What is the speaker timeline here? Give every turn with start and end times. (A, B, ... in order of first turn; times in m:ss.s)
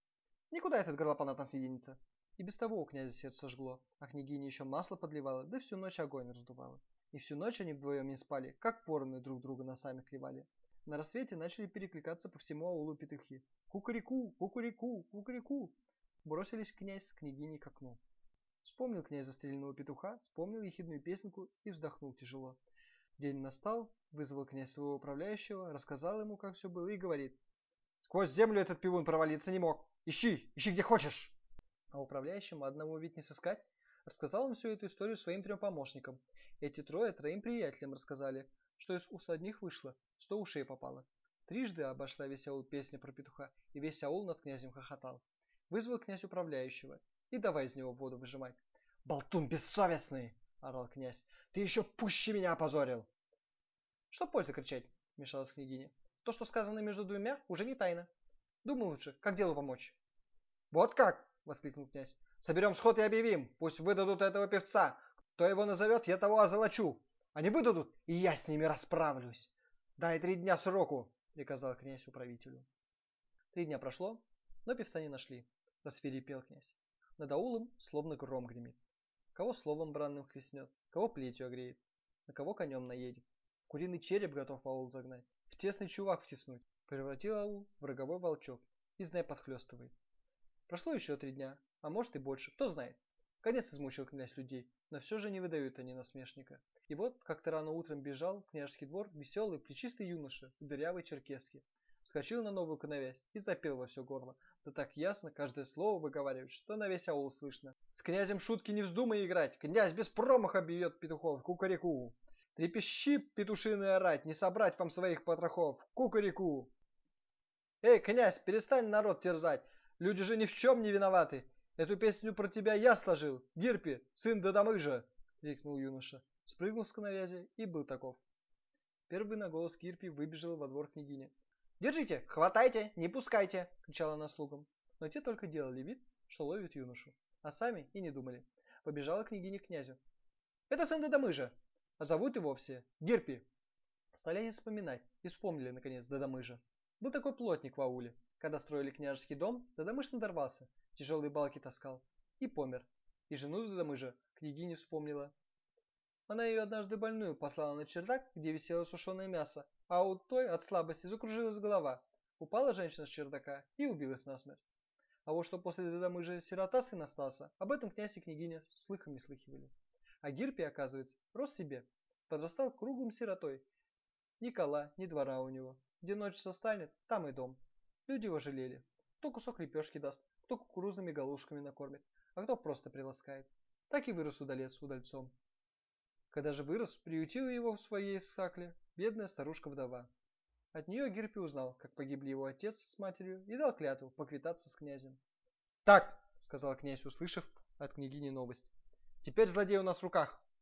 0:00.5-0:18.0 A
0:18.6-0:22.6 A
0:23.2-0:27.4 A
0:28.0-0:31.4 A
0:31.9-0:53.1 A
0:54.1-0:58.1 A
0:58.6-1:00.0 A
1:00.7-1:12.7 A
1:13.5-1:18.8 A
1:19.3-1:30.0 A
1:30.7-1:56.7 A
1:57.8-2:08.2 A
2:09.1-2:20.0 A
2:20.7-2:23.5 A
2:24.1-2:35.3 A
2:36.3-2:44.6 A
2:45.2-2:53.6 A
2:54.4-3:05.4 A
3:06.3-3:10.1 A
3:10.7-3:15.2 A
3:15.8-3:20.4 A